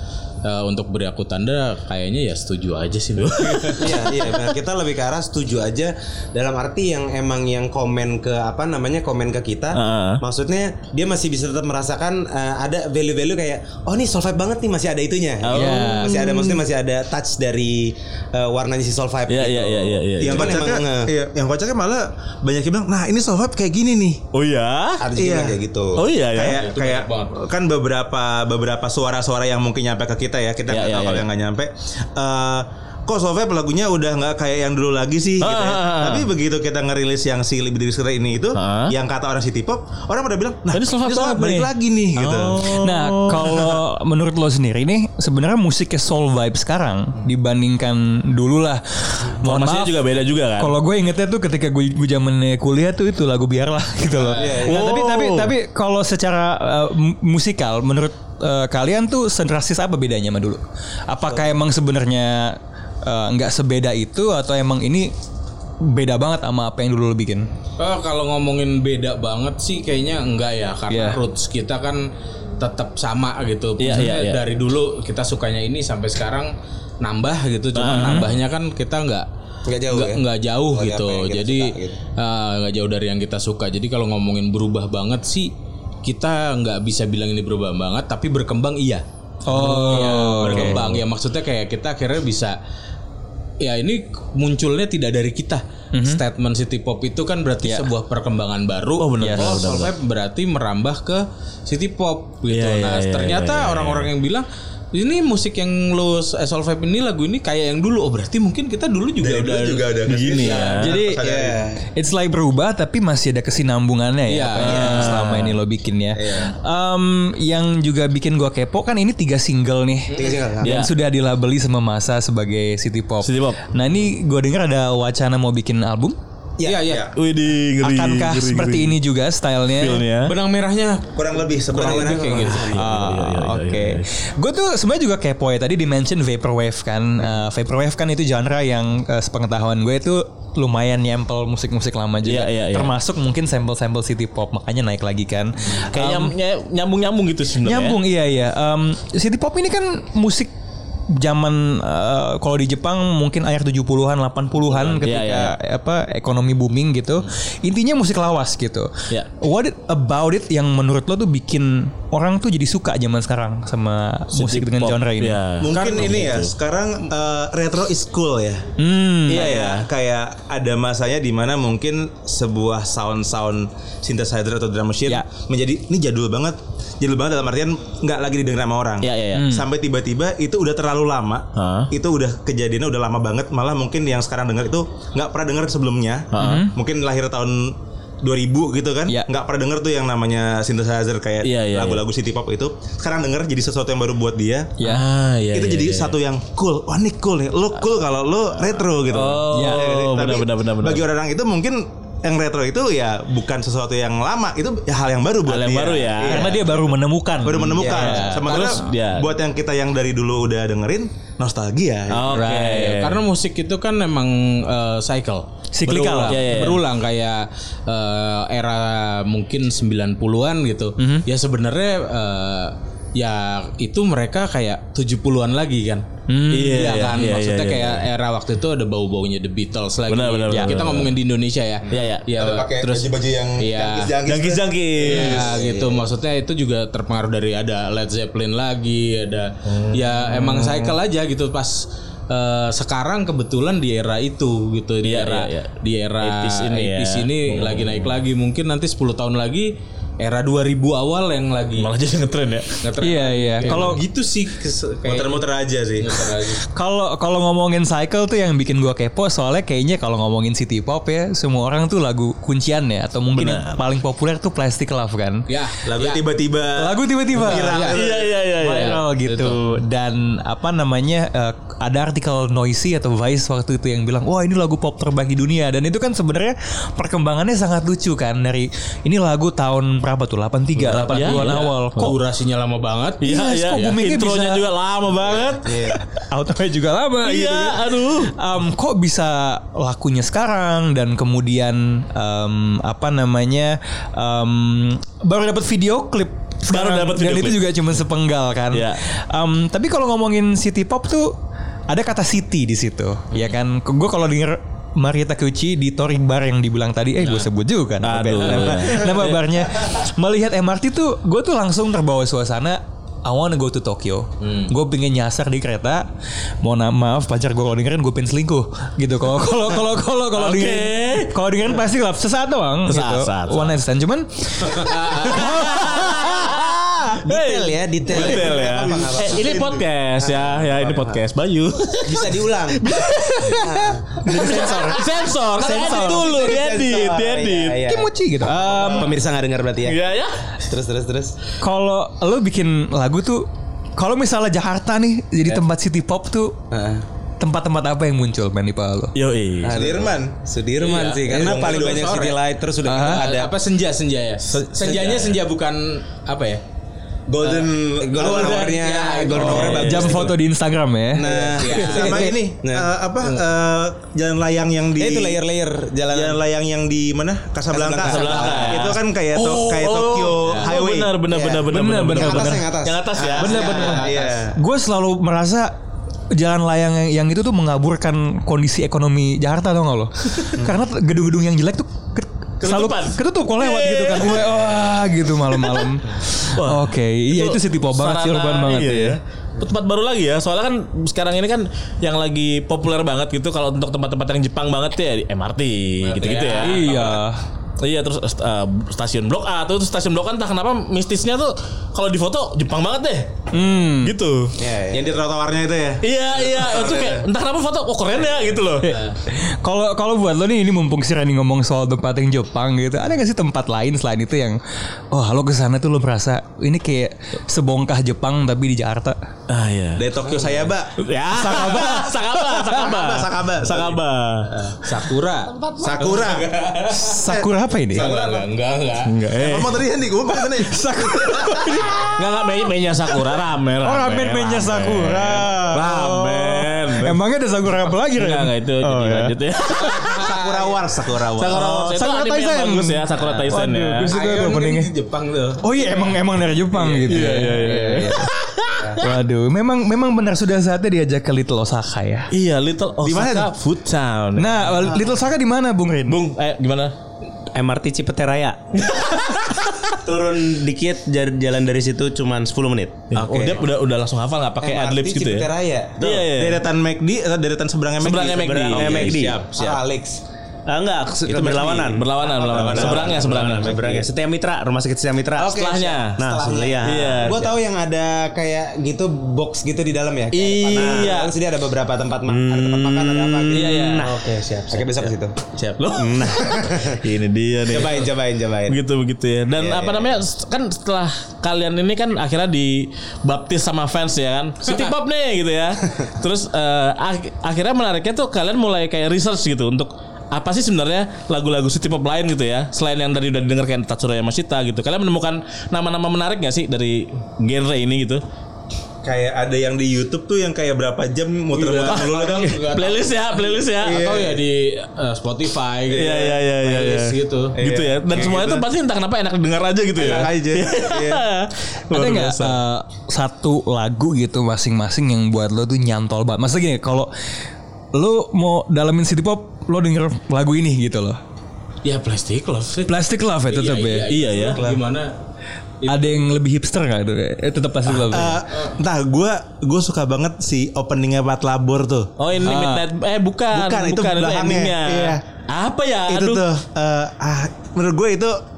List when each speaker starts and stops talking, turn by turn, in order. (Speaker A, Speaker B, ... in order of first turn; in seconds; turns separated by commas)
Speaker A: 0.4-3.9, Speaker B: 3.2-4.0, Speaker C: 3.8-21.1, Speaker B: 9.7-10.2, Speaker B: 15.4-16.5, Speaker D: 15.5-16.4, Speaker B: 19.3-20.6, Speaker E: 20.2-24.2, Speaker B: 24.3-25.0, Speaker C: 25.0-26.0, Speaker E: 25.2-25.6, Speaker B: 26.0-26.6, Speaker E: 26.3-42.7, Speaker A: 26.5-27.4, Speaker B: 30.7-31.3, Speaker B: 35.4-36.3, Speaker B: 38.5-38.9, Speaker B: 40.7-43.8, Speaker D: 42.7-50.0, Speaker B: 49.4-50.8, Speaker D: 50.6-65.1, Speaker C: 54.3-54.9, Speaker A: 54.3-54.6, Speaker B: 54.6-55.5, Speaker D: 65.8-67.5, Speaker A: 67.8-72.1, Speaker D: 70.9-71.2, Speaker A: 72.6-79.3, Speaker B: 73.8-74.4, Speaker B: 77.8-78.3, Speaker D: 78.0-78.3, Speaker C: 79.7-82.0, Speaker A: 79.9-85.5, Speaker A: 86.0-92.6, Speaker D: 89.5-90.8, Speaker B: 90.5-90.8, Speaker A: 93.6-110.9, Speaker D: 95.9-96.2, Speaker D: 97.6-97.9, Speaker B: 99.0-99.9, Speaker D: 99.2-99.6, Speaker B: 102.5-104.1, Speaker E: 109.2-111.6, Speaker B: 110.1-110.9, Speaker D: 110.8-111.2, Speaker C: 111.2-111.8, Speaker D: 112.0-126.2, Speaker A: 114.3-114.8, Speaker B: 114.6-115.5, Speaker C: 114.8-115.2, Speaker C: 116.2-116.5, Speaker C: 120.1-120.8, Speaker B: 120.6-120.9, Speaker B: 123.2-123.7, Speaker C: 126.6-127.0, Speaker A: 126.6-127.1, Speaker E: 126.8-127.1, Speaker B: 127.2-129.0, Speaker D: 127.8-130.1, Speaker B: 129.8-130.3, Speaker A: 130.3-132.7, Speaker E: 131.2-132.4, Speaker C: 131.7-132.9, Speaker B: 132.6-134.1, Speaker D: 132.7-146.3, Speaker B: 142.2-142.9, Speaker B: 145.9-148.0, Speaker D: 147.6-150.5, Speaker D: 151.1-165.4, Speaker B: 154.8-155.6, Speaker B: 164.3-166.5, Speaker E: 165.6-168.7, Speaker A: 165.8-166.2, Speaker D: 168.8-169.5, Speaker B: 169.3-169.9, Speaker E: 169.3-194.7, Speaker B: 179.0-179.5, Speaker D: 179.3-179.7, Speaker B: 181.6-181.9, Speaker B: 186.3-186.7, Speaker D: 186.4-186.7, Speaker B: 191.4-192.0, Speaker B: 194.8-196.2, Speaker E: 195.5-206.6, Speaker B: 199.1-201.1, Speaker D: 199.5-199.9, Speaker B: 205.5-206.6, Speaker D: 206.3-208.4, Speaker E: 207.4-212.4, Speaker C: 207.8-208.2, Speaker B: 208.3-209.3, Speaker A: 208.4-208.8, Speaker B: 212.1-213.2, Speaker D: 212.3-212.9, Speaker A: 212.5-234.2, Speaker D: 215.7-216.4, Speaker B: 216.3-216.8, Speaker D: 221.0-221.2, Speaker D: 226.3-226.9, Speaker B: 226.5-228.1, Speaker B: 230.1-231.1, Speaker D: 230.5-230.8, Speaker B: 231.9-232.3, Speaker E: 232.4-235.4, Speaker B: 234.2-235.6, Speaker A: 235.0-251.9, Speaker C: 235.2-236.1, Speaker B: 239.7-240.9, Speaker B: 245.0-248.2, Speaker B: 251.8-252.8, Speaker A: 252.8-255.4, Speaker D: 253.0-254.0, Speaker E: 255.0-256.3, Speaker A: 256.0-256.6, Speaker D: 256.7-265.4, Speaker B: 263.4-263.8, Speaker A: 265.5-266.2, Speaker E: 265.9-268.3, Speaker D: 266.8-267.9, Speaker A: 267.4-268.0, Speaker B: 267.9-269.8, Speaker D: 268.6-282.2, Speaker A: 268.6-269.6, Speaker A: 280.8-283.8, Speaker B: 281.1-282.1, Speaker D: 283.2-284.6, Speaker B: 283.2-286.0, Speaker C: 285.7-285.9, Speaker D: 286.0-301.4, Speaker B: 287.2-288.3, Speaker B: 296.7-297.7, Speaker B: 298.7-299.0, Speaker D: 301.9-316.1, Speaker B: 308.0-309.5, Speaker A: 314.4-314.7, Speaker D: 316.6-327.1, Speaker B: 320.4-321.3, Speaker B: 322.9-323.8, Speaker A: 324.7-325.5, Speaker B: 325.3-333.6, Speaker C: 327.2-331.2, Speaker E: 329.4-329.7, Speaker C: 332.0-332.9, Speaker D: 332.9-336.4, Speaker C: 333.4-335.0, Speaker B: 334.3-337.8, Speaker C: 335.6-340.0, Speaker D: 337.9-339.1, Speaker B: 339.9-340.4, Speaker C: 340.6-341.4, Speaker D: 341.6-346.6, Speaker C: 346.7-347.1, Speaker D: 347.4-349.1, Speaker B: 349.1-349.8, Speaker C: 349.6-353.6, Speaker E: 349.7-350.4, Speaker A: 350.8-352.4, Speaker E: 351.3-352.1, Speaker D: 352.8-353.3, Speaker A: 352.9-356.6, Speaker E: 357.3-358.7, Speaker A: 357.4-360.2, Speaker C: 358.0-360.4, Speaker D: 359.4-361.3, Speaker B: 359.4-360.1, Speaker C: 361.1-362.9, Speaker A: 361.3-362.3, Speaker E: 361.3-365.4, Speaker C: 365.0-366.5, Speaker E: 366.1-371.2, Speaker C: 367.7-368.9, Speaker B: 368.0-373.9, Speaker A: 370.4-370.7, Speaker C: 371.2-374.5, Speaker D: 371.7-372.7, Speaker D: 373.4-375.8, Speaker A: 373.4-374.4, Speaker E: 374.1-374.6, Speaker D: 376.3-389.2, Speaker B: 382.6-384.5, Speaker B: 385.6-385.9, Speaker B: 386.5-397.1, Speaker A: 396.1-397.0, Speaker D: 396.6-397.4, Speaker B: 397.8-403.4, Speaker D: 403.5-404.1, Speaker B: 404.0-404.5, Speaker C: 404.6-405.2, Speaker E: 404.9-407.2, Speaker B: 406.0-408.9, Speaker D: 408.8-414.6, Speaker D: 415.1-419.2, Speaker B: 419.5-420.1, Speaker E: 420.0-420.9, Speaker C: 420.1-420.7, Speaker B: 421.0-424.5, Speaker D: 421.3-422.9, Speaker E: 423.0-423.9, Speaker A: 424.8-427.2, Speaker E: 425.8-426.5, Speaker C: 425.8-426.4, Speaker D: 427.0-428.1, Speaker A: 427.9-429.1, Speaker C: 428.0-428.4, Speaker B: 429.1-429.8, Speaker E: 429.4-431.0, Speaker D: 430.5-432.2, Speaker B: 432.1-437.2, Speaker D: 433.8-439.4, Speaker B: 438.1-440.2, Speaker A: 439.9-440.7, Speaker E: 440.3-441.6, Speaker C: 440.4-440.9, Speaker B: 441.4-444.1, Speaker D: 441.5-444.9, Speaker A: 444.1-445.9, Speaker D: 445.6-448.3, Speaker A: 446.7-447.8, Speaker B: 447.1-448.9, Speaker D: 449.0-452.3, Speaker B: 452.3-454.9, Speaker E: 453.0-453.5, Speaker D: 454.4-456.2, Speaker B: 456.1-456.9, Speaker F: 457.5-458.8, Speaker B: 458.9-459.7, Speaker F: 460.0-463.1, Speaker B: 463.1-466.6, Speaker C: 463.2-463.6, Speaker C: 464.6-466.2, Speaker E: 466.3-469.8, Speaker B: 468.0-469.2, Speaker F: 468.6-469.5, Speaker C: 468.7-470.2, Speaker F: 470.7-475.6, Speaker E: 471.3-473.5, Speaker B: 471.9-474.1, Speaker C: 472.2-473.7, Speaker C: 475.4-484.2, Speaker B: 475.4-476.2, Speaker F: 476.1-477.4, Speaker B: 476.8-477.5, Speaker B: 480.3-481.3, Speaker B: 482.3-484.1, Speaker F: 483.5-485.0, Speaker C: 484.7-485.4, Speaker B: 485.8-488.1, Speaker C: 485.9-487.0, Speaker C: 487.7-488.8, Speaker B: 488.7-508.2, Speaker C: 489.6-490.1, Speaker E: 509.0-512.6, Speaker A: 511.5-517.6, Speaker B: 511.9-514.1, Speaker E: 514.0-514.3, Speaker B: 515.9-522.6, Speaker E: 517.6-518.6, Speaker E: 520.0-521.2, Speaker D: 521.9-527.1, Speaker D: 527.9-531.2, Speaker A: 531.8-535.1, Speaker D: 532.9-534.1, Speaker B: 534.1-534.6, Speaker A: 535.8-536.1, Speaker D: 535.9-538.4, Speaker E: 538.0-542.1, Speaker B: 542.2-546.4, Speaker D: 542.4-542.9, Speaker E: 543.5-545.2, Speaker E: 546.1-548.4